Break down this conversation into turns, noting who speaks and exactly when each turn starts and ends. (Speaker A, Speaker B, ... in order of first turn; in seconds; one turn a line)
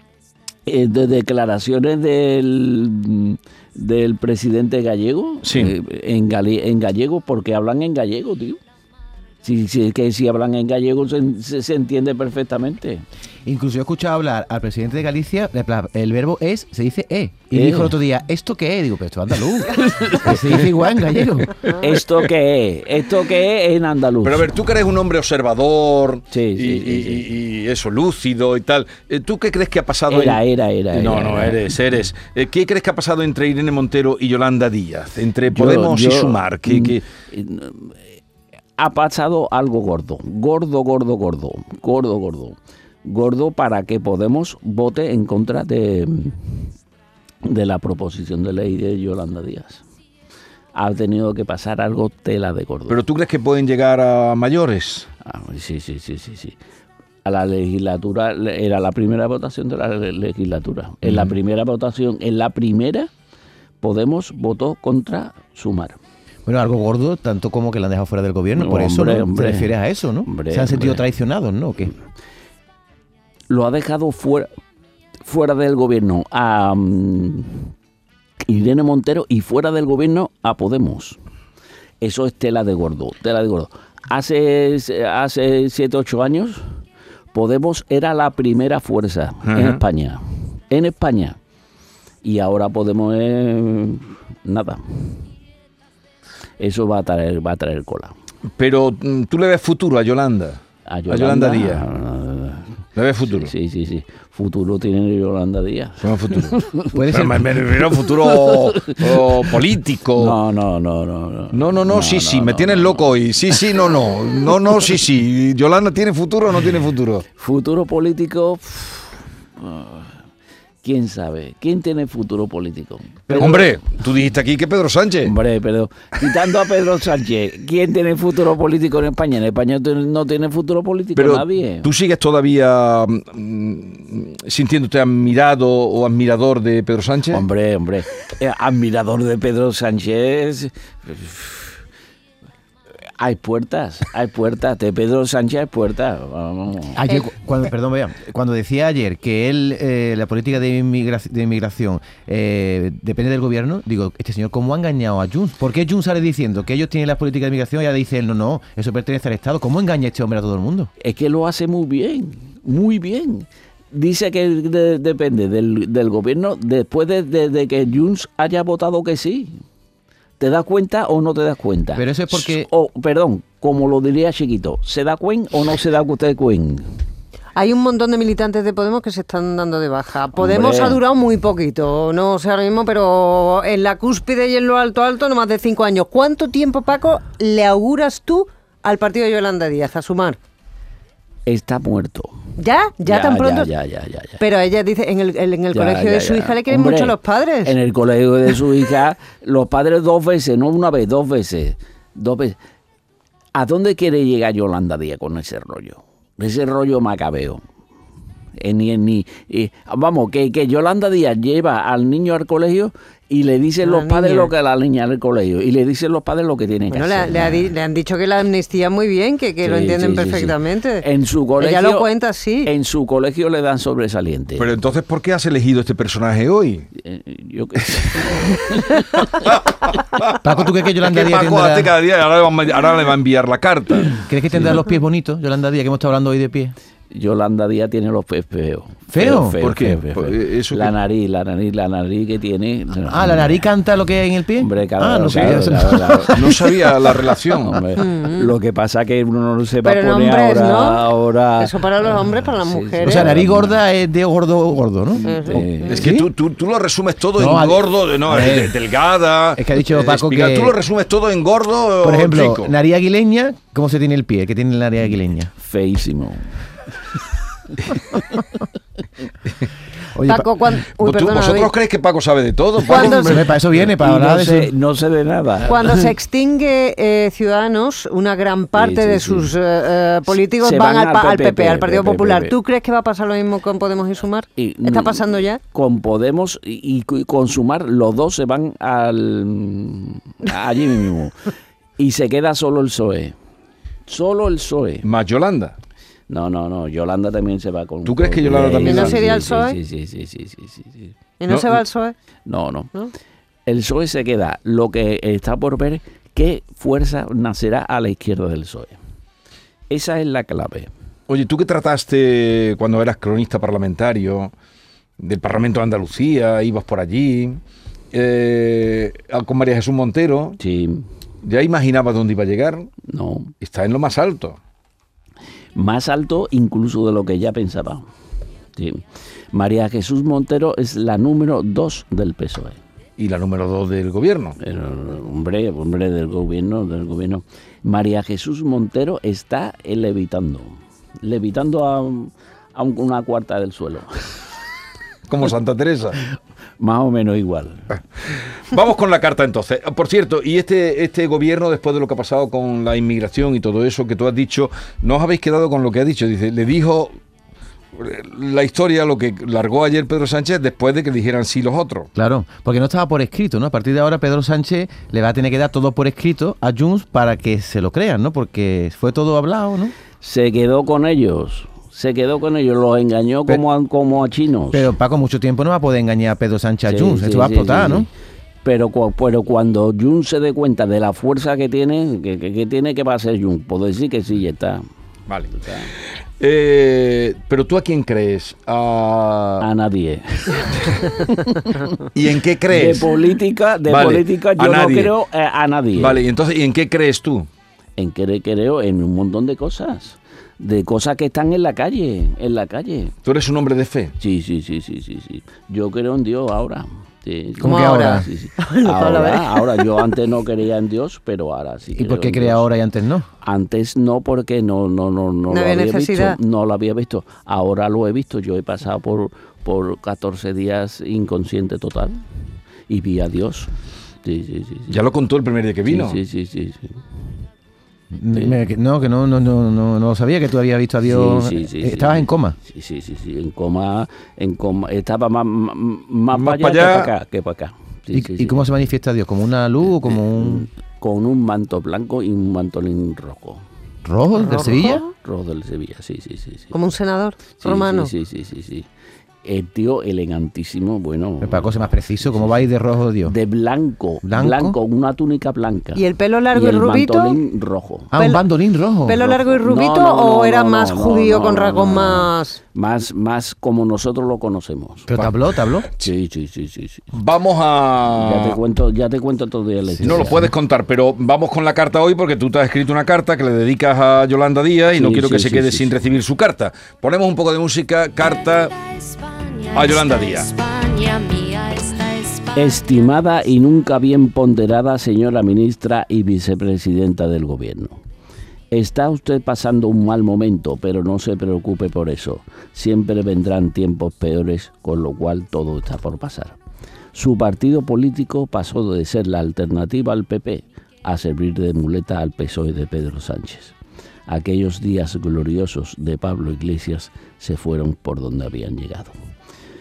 Speaker A: 0.7-8.6
Speaker B: 5.4-5.7
Speaker A: 9.4-13.0
Speaker C: 13.5-21.7
Speaker A: 17.5-17.9
Speaker A: 19.7-20.6
Speaker A: 21.7-24.5
Speaker B: 24.2-30.4
Speaker A: 26.3-27.3
Speaker A: 30.1-31.6
Speaker B: 30.9-37.0
Speaker A: 35.5-38.2
Speaker A: 38.8-46.7
Speaker A: 47.5-49.8
Speaker A: 50.8-53.0
Speaker B: 52.9-55.1
Speaker A: 55.2-56.6
Speaker A: 57.2-63.1
Speaker B: 61.0-61.3
Speaker A: 63.8-66.0
Speaker C: 66.5-71.9
Speaker A: 68.5-71.0
Speaker A: 73.5-74.5
Speaker A: 75.2-77.7
Speaker A: 78.4-81.2
Speaker A: 82.0-86.7
Speaker A: 87.3-91.4
Speaker B: 89.5-89.8
Speaker A: 92.2-95.2
Speaker A: 96.6-98.1
Speaker B: 98.6-101.8
Speaker A: 100.9-107.0
Speaker B: 103.0-103.5
Speaker B: 106.0-106.6
Speaker C: 106.9-107.5
Speaker B: 107.1-110.4
Speaker A: 108.2-109.5
Speaker A: 110.2-113.2
Speaker B: 111.5-117.2
Speaker A: 117.4-120.1
Speaker A: 120.8-123.7
Speaker C: 123.3-123.7
Speaker B: 123.4-125.3
Speaker A: 125.2-131.9
Speaker B: 131.2-137.4
Speaker A: 137.3-141.8
Speaker A: 143.2-147.0
Speaker C: 146.9-160.9
Speaker A: 161.0-169.6
Speaker A: 170.4-176.9
Speaker C: 171.9-172.7
Speaker D: 177.6-190.4
Speaker A: 180.4-181.0
Speaker A: 191.5-192.3
Speaker D: 192.6-193.7
Speaker A: 193.1-194.4
Speaker D: 194.4-197.8
Speaker A: 195.7-202.6
Speaker A: 203.6-207.6
Speaker A: 208.6-217.7
Speaker D: 213.8-214.5
Speaker D: 216.9-221.1
Speaker A: 219.6-222.1
Speaker D: 221.6-222.7
Speaker A: 222.6-224.7
Speaker B: 224.6-226.9
Speaker A: 227.0-229.2
Speaker B: 229.2-230.3
Speaker C: 230.4-231.9
Speaker B: 231.1-234.2
Speaker C: 234.3-236.8
Speaker A: 237.1-243.7
Speaker C: 239.1-239.6
Speaker B: 239.6-240.9
Speaker C: 243.1-246.9
Speaker A: 244.6-246.6
Speaker B: 246.3-247.8
Speaker A: 247.5-253.8
Speaker D: 248.0-248.5
Speaker D: 249.8-251.1
Speaker D: 251.6-253.3
Speaker C: 253.0-256.2
Speaker D: 255.2-256.2
Speaker A: 255.4-256.1
Speaker B: 255.9-262.7
Speaker C: 257.4-258.8
Speaker C: 259.6-260.7
Speaker C: 262.0-265.5
Speaker A: 265.6-266.6
Speaker C: 270.1-270.5
Speaker D: 270.3-271.8
Speaker B: 271.0-273.5
Speaker D: 272.9-273.4
Speaker C: 272.9-274.7
Speaker A: 273.8-276.0
Speaker D: 275.7-285.6
Speaker A: 278.7-279.5
Speaker A: 280.3-282.6
Speaker A: 284.6-291.4
Speaker A: 292.0-293.4
Speaker A: 294.1-295.1
Speaker B: 295.0-295.8
Speaker A: 296.3-301.1
Speaker B: 298.1-299.2
Speaker D: 298.7-299.8
Speaker D: 301.4-302.1
Speaker B: 301.5-301.8
Speaker A: 302.5-302.9
Speaker A: 303.7-309.0
Speaker A: 309.9-310.9
Speaker B: 311.3-314.5
Speaker B: 315.2-317.6
Speaker B: 318.1-320.6
Speaker A: 320.6-321.1
Speaker B: 321.4-322.9
Speaker A: 323.1-323.5
Speaker B: 323.6-324.6
Speaker A: 325.8-328.1
Speaker A: 328.8-332.8
Speaker B: 333.2-334.6
Speaker A: 334.6-344.4
Speaker B: 345.3-346.2
Speaker A: 346.8-347.9
Speaker B: 348.3-357.2
Speaker B: 358.0-362.1
Speaker C: 362.2-369.9
Speaker A: 370.2-374.9
Speaker C: 374.7-378.1
Speaker A: 376.9-378.1
Speaker A: 378.6-384.8
Speaker B: 385.3-389.6
Speaker A: 385.6-385.9
Speaker A: 389.6-391.9
Speaker B: 392.1-393.1
Speaker A: 392.7-396.2
Speaker B: 393.9-395.1
Speaker B: 396.0-397.5
Speaker A: 398.0-403.1
Speaker B: 403.2-404.1
Speaker A: 404.2-412.7
Speaker C: 407.6-408.3
Speaker D: 407.6-410.0
Speaker C: 411.9-413.3
Speaker A: 413.4-422.2
Speaker D: 415.5-416.4
Speaker A: 422.9-425.0
Speaker B: 424.9-426.2
Speaker A: 425.9-427.0
Speaker C: 428.1-432.6
Speaker A: 431.1-438.7
Speaker B: 436.3-437.1
Speaker C: 438.1-440.7
Speaker A: 439.8-443.6
Speaker C: 444.1-445.0
Speaker D: 444.4-445.1
Speaker A: 445.2-446.8
Speaker D: 446.7-448.1
Speaker A: 447.6-448.9
Speaker A: 449.4-452.7
Speaker C: 451.4-453.4
Speaker A: 453.2-458.1
Speaker C: 454.2-454.8
Speaker D: 455.9-457.4
Speaker C: 458.1-459.3
Speaker D: 458.1-458.5
Speaker D: 459.1-462.6
Speaker A: 459.3-465.1
Speaker C: 465.1-465.9
Speaker A: 466.0-467.1
Speaker B: 467.1-468.6
Speaker A: 468.1-470.4
Speaker B: 470.0-478.7
Speaker C: 470.2-470.4
Speaker A: 474.9-475.9
Speaker E: 478.6-482.9
Speaker B: 479.7-480.5
Speaker A: 482.6-488.0
Speaker A: 488.7-496.6
Speaker A: 497.1-503.8
Speaker A: 504.3-509.1